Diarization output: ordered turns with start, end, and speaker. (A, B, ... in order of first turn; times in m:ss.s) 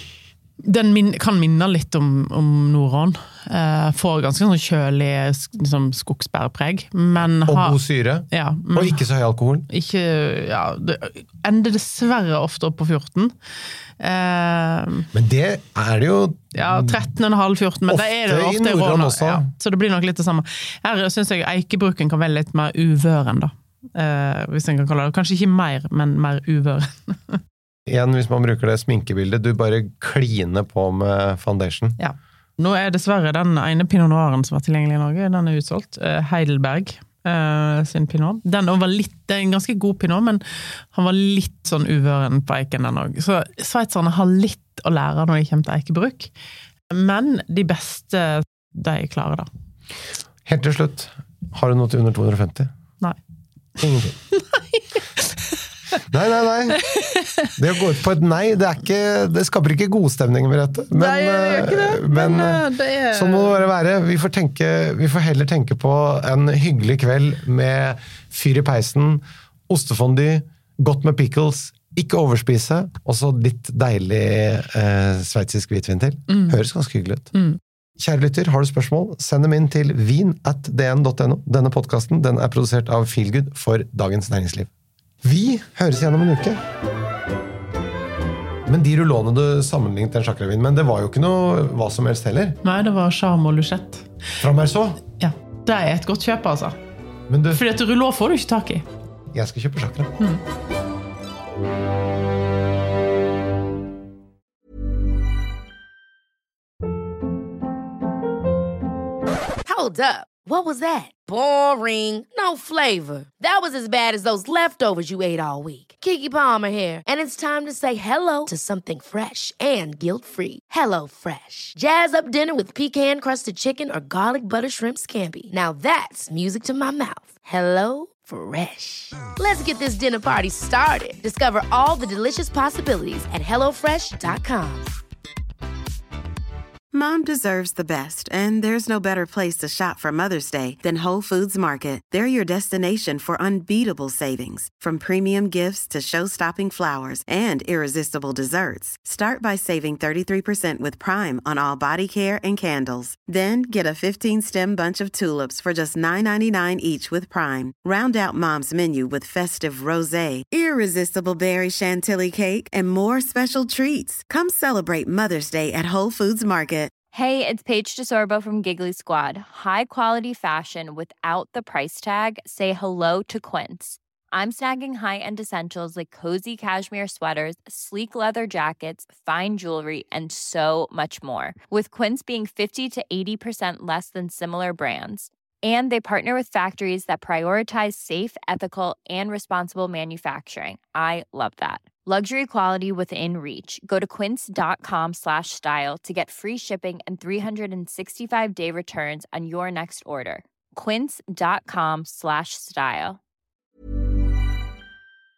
0:00.6-0:07.8 A
0:07.4-0:09.7 B
0:08.3-0:09.0 A
0:09.7-0:13.3 A
0:14.0-0:15.1 A
0:15.1-0:17.0 B
0:16.5-0:27.4 A
0:17.9-0:19.5 B
0:27.9-0:32.0 B
0:32.0-0:46.3 A
0:46.9-0:49.5 A
0:50.5-0:52.7 B
0:53.8-0:54.2 B
0:54.3-0:55.4 A
0:56.1-0:56.9 B
0:56.9-0:57.5 A
0:57.6-1:17.3 B
1:00.9-1:03.6 A
1:16.3-1:16.6 A
1:18.0-1:24.7 B
1:25.2-1:26.6 B
1:28.7-1:32.6 B
1:32.6-1:34.1 A
1:34.4-1:35.0 B
1:35.2-1:36.8 A
1:37.3-1:37.6 B
1:37.5-1:38.9 A
1:39.3-1:40.1 B
1:49.7-2:14.9 C
2:16.9-2:46.9 D
2:47.1-3:23.2 E